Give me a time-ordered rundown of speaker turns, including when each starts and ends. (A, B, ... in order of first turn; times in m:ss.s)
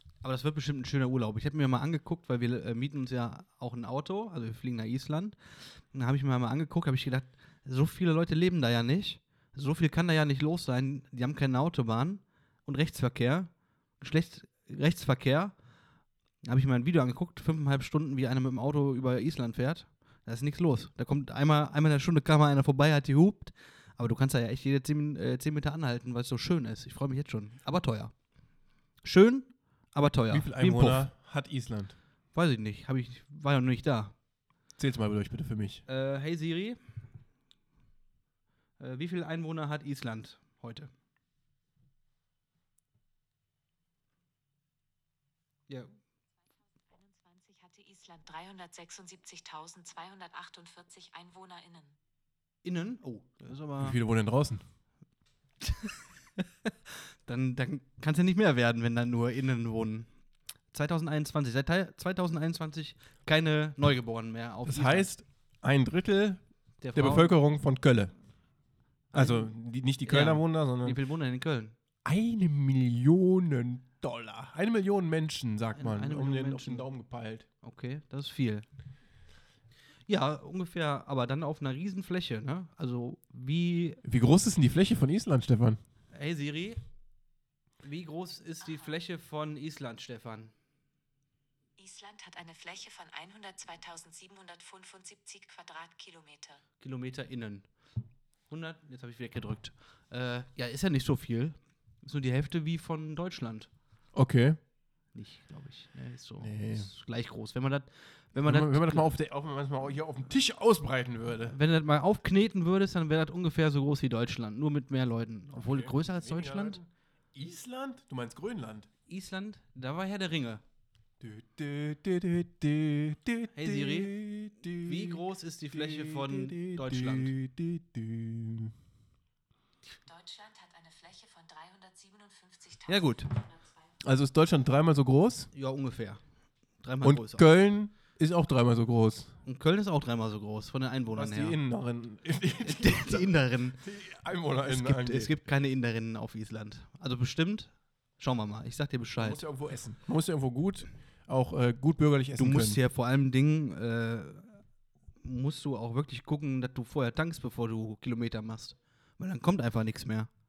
0:00.2-0:15.6 A
0:16.4-0:28.1 A
0:29.0-0:31.1 A
0:30.3-0:31.9 B
0:32.3-0:34.1 A
0:34.8-0:35.8 B
0:35.9-0:36.8 A
0:38.8-0:40.9 A
0:46.9-0:51.9 C
0:52.6-0:54.0 A
0:53.8-0:54.6 B
0:55.6-1:00.1 A
1:00.7-1:05.1 A
1:04.6-1:06.4 B
1:06.8-1:07.3 A
1:06.9-1:08.1 B
1:09.1-1:09.5 A
1:09.1-1:11.0 B
1:10.0-1:11.7 A
1:12.0-1:17.5 B
1:15.8-1:16.9 A
1:17.6-1:18.6 A
1:20.1-1:24.0 A
1:24.0-1:25.8 B
1:26.1-1:26.8 A
1:27.8-1:30.5 A
1:31.8-1:36.6 C
1:36.8-1:37.7 A
1:38.5-1:43.7 A
1:44.1-1:44.6 B
1:45.1-1:49.1 A
1:46.4-1:46.9 B
1:48.4-1:51.6 B
1:51.5-1:56.8 A
1:55.5-1:58.9 B
1:59.1-2:00.6 A
2:01.2-2:08.7 B
2:03.5-2:04.1 A
2:04.8-2:07.3 A
2:10.0-2:13.9 C
2:12.9-2:13.3 A
2:14.0-2:15.5 B
2:15.5-2:16.2 A
2:16.8-2:17.5 A
2:17.0-2:19.3 B
2:19.4-2:21.6 A
2:21.1-2:25.3 B
2:22.6-2:23.8 A
2:24.6-2:29.4 A
2:29.2-2:32.8 B
2:32.4-2:34.6 A
2:35.2-2:40.3 A